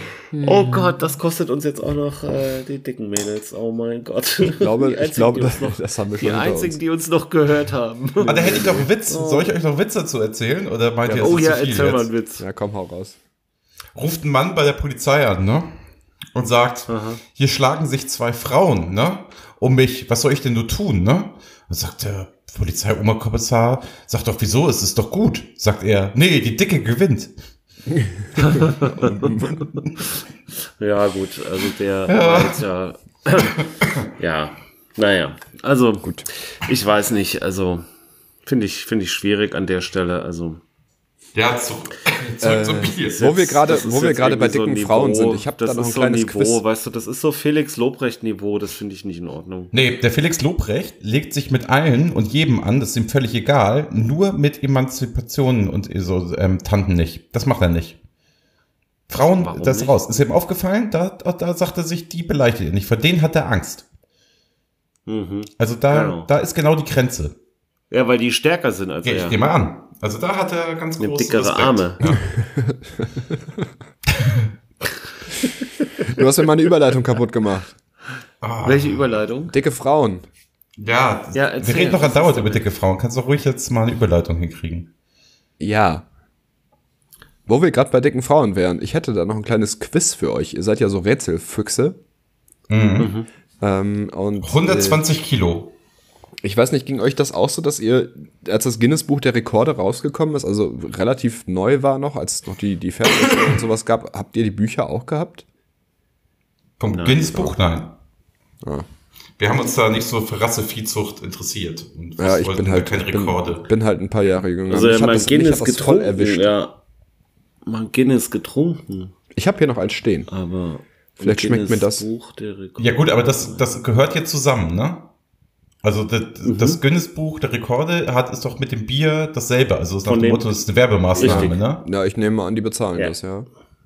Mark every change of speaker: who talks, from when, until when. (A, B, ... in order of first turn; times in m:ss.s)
0:00.3-0:00.9 A
0:00.4-0:09.5 B
0:04.5-0:06.8 A
0:08.2-0:08.9 A
0:08.3-0:12.1 C
0:11.1-0:11.4 A
0:11.2-0:12.4 B
0:12.4-0:13.2 A
0:14.0-0:15.8 C
0:16.4-0:27.3 C
0:16.9-0:17.2 B
0:27.9-0:29.7 A
0:28.4-0:29.4 B
0:30.8-0:33.6 B
0:32.1-0:32.6 C
0:33.6-0:34.1 C
0:34.2-0:37.9 B
0:38.4-0:40.6 B
0:41.4-0:43.3 C
0:42.4-0:46.6 A
0:43.1-0:49.7 B
0:49.7-0:58.0 C
0:59.1-1:03.8 C
0:59.4-1:00.0 B
1:05.1-1:06.3 B
1:05.6-1:07.4 C
1:07.9-1:09.4 B
1:09.0-1:12.2 C
1:11.0-1:12.0 B
1:12.4-1:13.7 A
1:14.1-1:14.5 C
1:15.4-1:16.2 B
1:16.0-1:17.7 A
1:18.4-1:19.1 C
1:18.6-1:19.6 B
1:19.5-1:20.2 A
1:20.8-1:24.9 C
1:21.3-1:22.7 B
1:25.6-1:26.1 A
1:27.5-1:32.0 A
1:32.7-1:33.1 C
1:33.0-1:33.3 B
1:33.6-1:35.0 A
1:34.4-1:35.7 C
1:36.4-1:45.4 A
1:46.8-1:48.0 C
1:46.9-1:47.6 B
1:48.6-1:48.9 A
1:49.4-1:53.6 C
1:52.2-1:56.5 A
1:54.7-1:56.8 B
1:57.7-1:59.1 B
1:59.3-2:00.3 A
2:00.3-2:03.6 B
2:01.2-2:02.1 A
2:02.8-2:05.1 C
2:05.8-2:11.8 C
2:06.4-2:06.8 B
2:10.0-2:10.6 B
2:11.2-2:11.6 B
2:11.2-2:13.5 A